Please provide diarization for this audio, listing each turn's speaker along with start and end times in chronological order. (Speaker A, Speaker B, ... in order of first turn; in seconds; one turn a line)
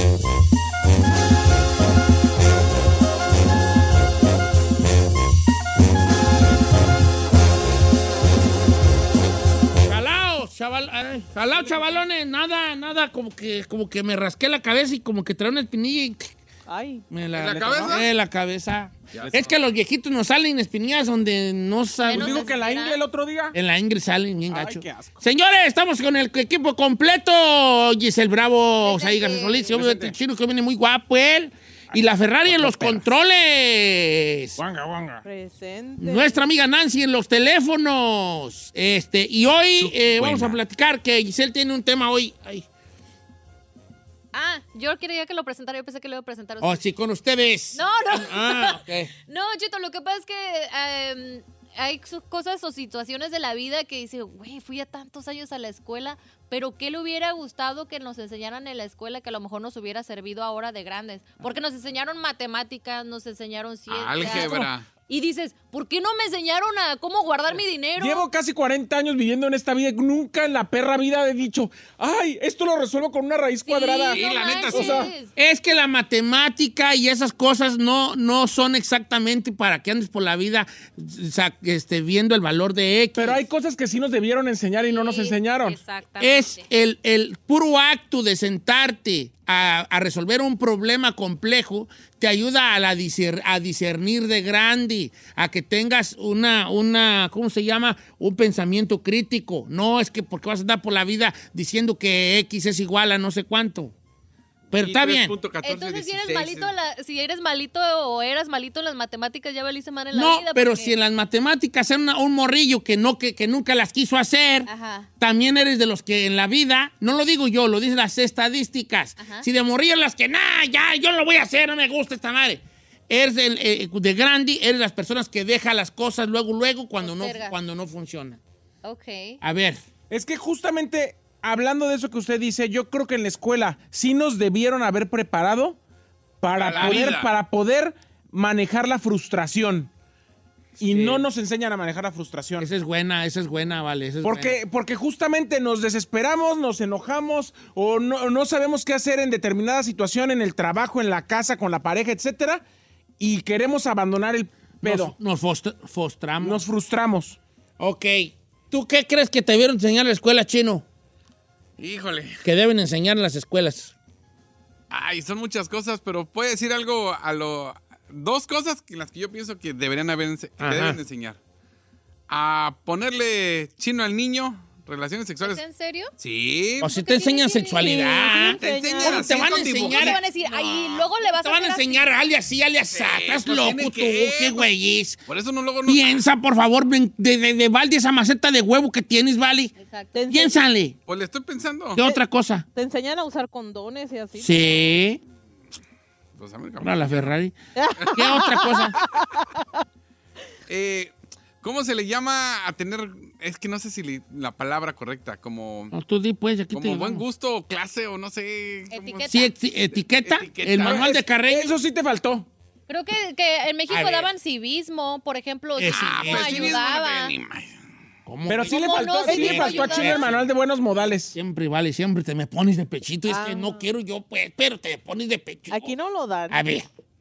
Speaker A: 9.8-16.3
Speaker B: 16.7-17.0
Speaker A: 17.1-22.4
Speaker C: 17.3-18.1
Speaker D: 17.4-18.0
Speaker C: 19.1-19.5
Speaker E: 22.0-23.0
Speaker D: 22.1-23.5
Speaker A: 23.5-34.6
Speaker D: 24.5-25.2
Speaker E: 28.8-29.7
Speaker D: 29.7-30.1
Speaker D: 31.9-33.1
Speaker D: 34.6-35.2
Speaker B: 35.2-36.4
Speaker A: 36.0-42.6
Speaker C: 40.0-40.5
Speaker E: 44.3-46.8
Speaker A: 46.6-49.1
Speaker E: 47.7-68.3
Speaker C: 63.9-64.9
Speaker D: 68.0-74.2
Speaker E: 73.7-75.3
Speaker C: 74.1-75.1
Speaker D: 74.7-75.1
Speaker A: 75.3-83.4
Speaker D: 83.2-85.8
Speaker E: 84.8-86.6
Speaker A: 86.2-103.9
Speaker A: 104.7-105.4
Speaker C: 104.7-106.7
Speaker E: 105.6-110.9
Speaker A: 110.1-114.7
Speaker E: 114.7-115.1
Speaker A: 115.2-128.4
Speaker E: 119.2-119.5
Speaker E: 127.0-127.5
Speaker E: 128.8-129.4
Speaker A: 129.4-129.8
Speaker D: 130.1-135.8
Speaker D: 136.4-139.9
Speaker C: 136.5-137.3
Speaker A: 136.8-137.1
Speaker D: 140.8-142.7
Speaker A: 140.8-141.2
Speaker A: 142.6-144.6
Speaker D: 144.2-152.6
Speaker D: 153.2-155.1
Speaker A: 154.8-156.6
Speaker D: 156.4-157.4
Speaker A: 157.8-160.8
Speaker C: 161.8-162.4
Speaker A: 162.4-163.9
Speaker C: 164.9-171.4
Speaker A: 170.6-171.0
Speaker C: 172.3-175.6
Speaker E: 175.4-176.1
Speaker C: 176.2-176.9
Speaker A: 176.8-180.2
Speaker E: 176.9-178.2
Speaker B: 177.8-179.3
Speaker C: 178.3-181.1
Speaker E: 179.8-182.0
Speaker A: 181.2-185.2
Speaker C: 182.9-184.7
Speaker C: 185.3-186.2
Speaker A: 185.8-189.7
Speaker E: 189.8-190.3
Speaker B: 190.1-190.6
Speaker A: 190.3-190.9
Speaker C: 191.1-192.0
Speaker A: 191.9-192.7
Speaker B: 192.7-194.7
Speaker A: 194.3-195.2
Speaker C: 196.3-197.2
Speaker A: 196.8-197.5
Speaker B: 197.7-199.4
Speaker A: 198.1-199.0
Speaker C: 200.7-205.9
Speaker A: 205.9-207.2
Speaker C: 206.7-211.1
Speaker E: 208.9-209.5
Speaker A: 209.3-211.7
Speaker D: 210.8-212.5
Speaker E: 212.9-217.3
Speaker A: 213.9-214.3
Speaker A: 215.8-216.8
Speaker C: 215.8-217.7
Speaker A: 218.2-220.5
Speaker D: 218.5-221.3
Speaker E: 218.7-220.3
Speaker B: 219.3-219.6
Speaker A: 221.3-225.9
Speaker B: 223.3-223.8
Speaker B: 225.7-226.6
Speaker A: 226.5-226.8